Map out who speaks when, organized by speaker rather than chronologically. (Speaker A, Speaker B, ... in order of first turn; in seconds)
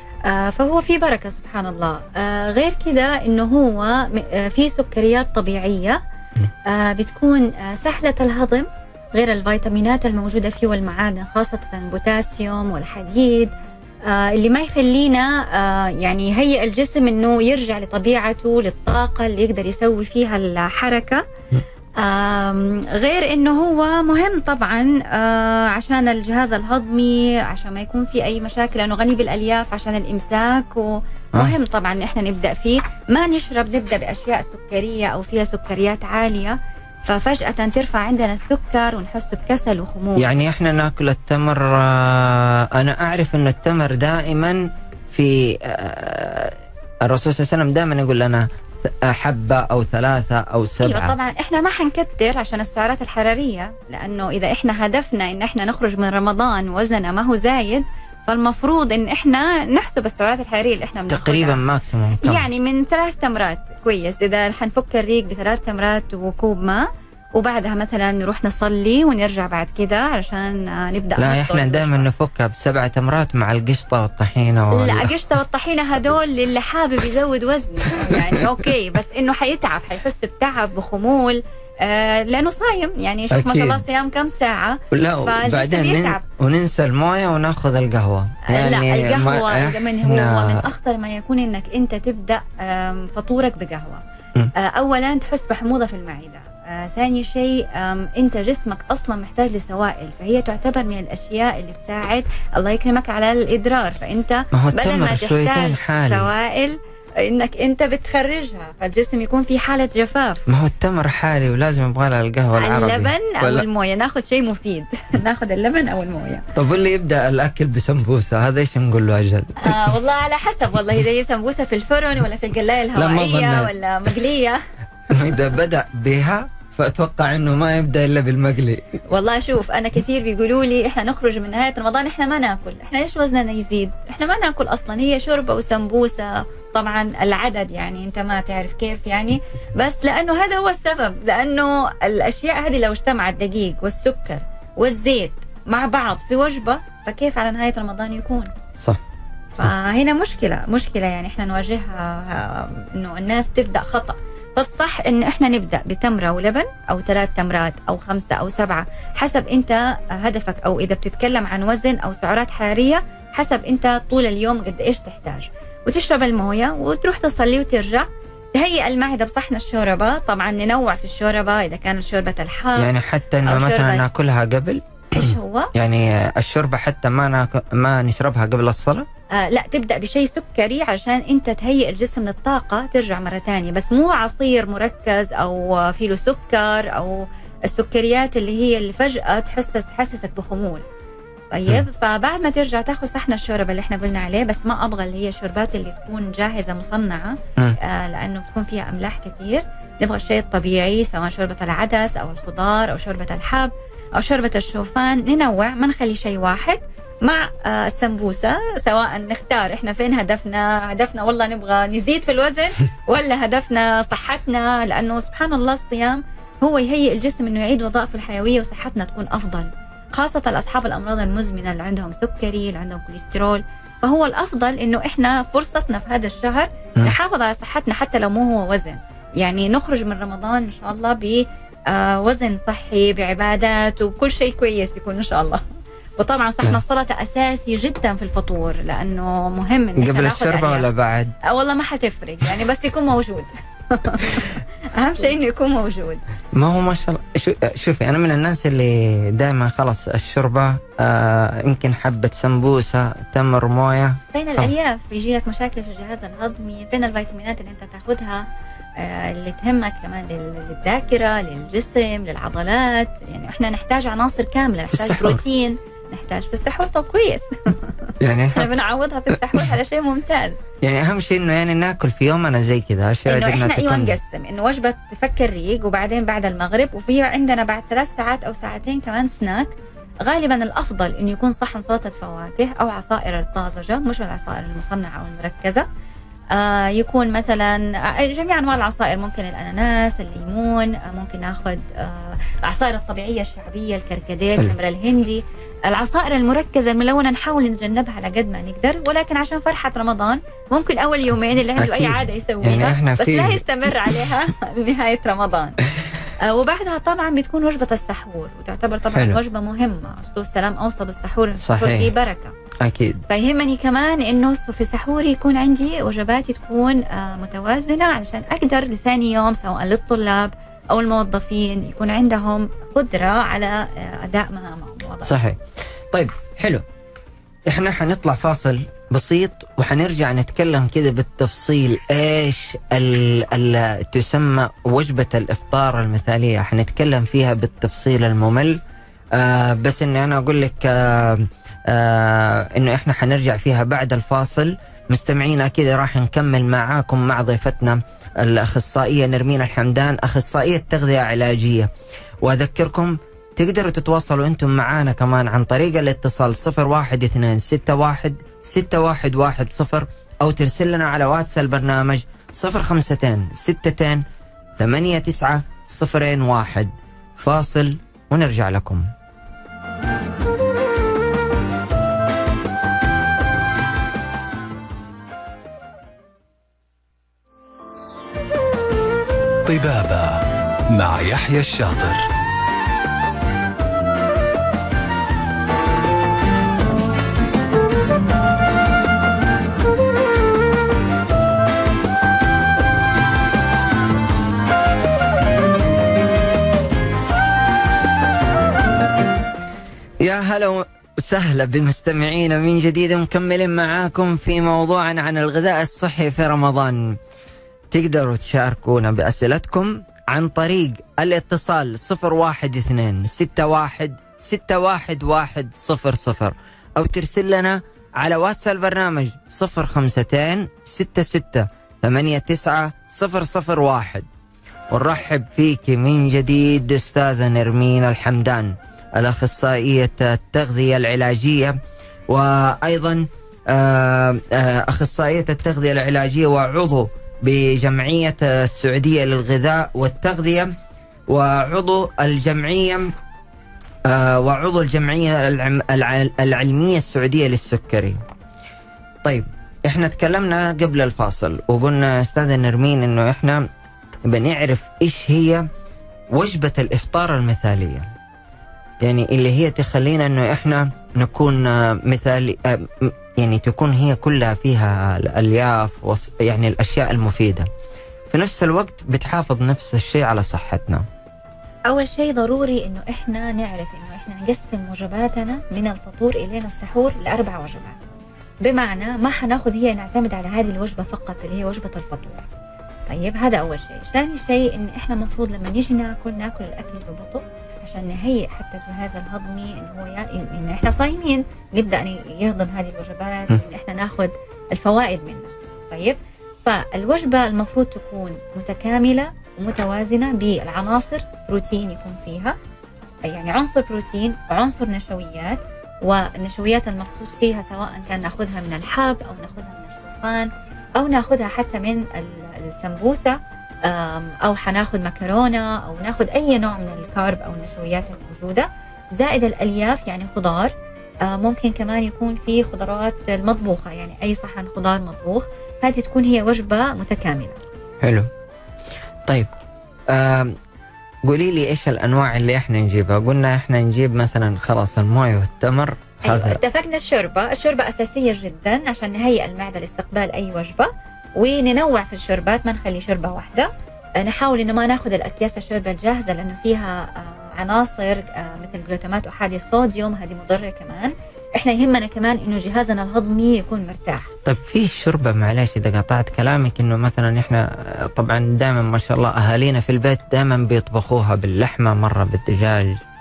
Speaker A: 0.2-6.0, 6.7-13.5, 14.0-21.2, 22.0-40.3, 50.8-61.6, 62.2-72.0, 74.7-86.2, 88.5-94.0, 94.5-110.4, 112.5-116.5, 119.6-124.6, 129.1-148.5, 149.6-172.9, 173.4-174.1, 175.1-175.7, 179.3-190.8, 191.5-235.6, 236.2-240.9, 241.4-246.2, 254.3-270.6, 273.3-285.9, 286.5-312.5, 313.3-325.4, 471.9-478.0, 478.6-482.4, 483.1-502.6, 503.2-527.6, 536.2-554.3
Speaker B: 40.1-51.1, 61.1-62.5, 71.2-75.1, 78.1-78.5, 83.3-83.8, 84.9-90.7, 104.5-106.3, 110.5-113.7, 116.5-119.8, 122.9-123.7, 125.1-129.0, 172.8-179.1, 240.0-241.3, 246.5-254.7, 264.9-265.4, 268.2-268.7, 270.8-274.1, 301.8-304.2, 309.1-309.4, 311.6-312.1, 312.8-313.2, 325.2-325.6, 326.1-326.8, 327.7-338.8, 339.3-351.9, 352.4-364.2, 364.8-369.1, 400.2-407.2, 407.9-424.3, 424.9-440.7, 441.3-443.1, 444.1-448.2, 449.2-453.7, 454.2-455.7, 456.3-458.1, 459.0-467.7, 468.3-471.1, 528.0-528.3, 530.1-530.5, 531.2-536.6, 554.4-563.0
Speaker C: 379.6-382.3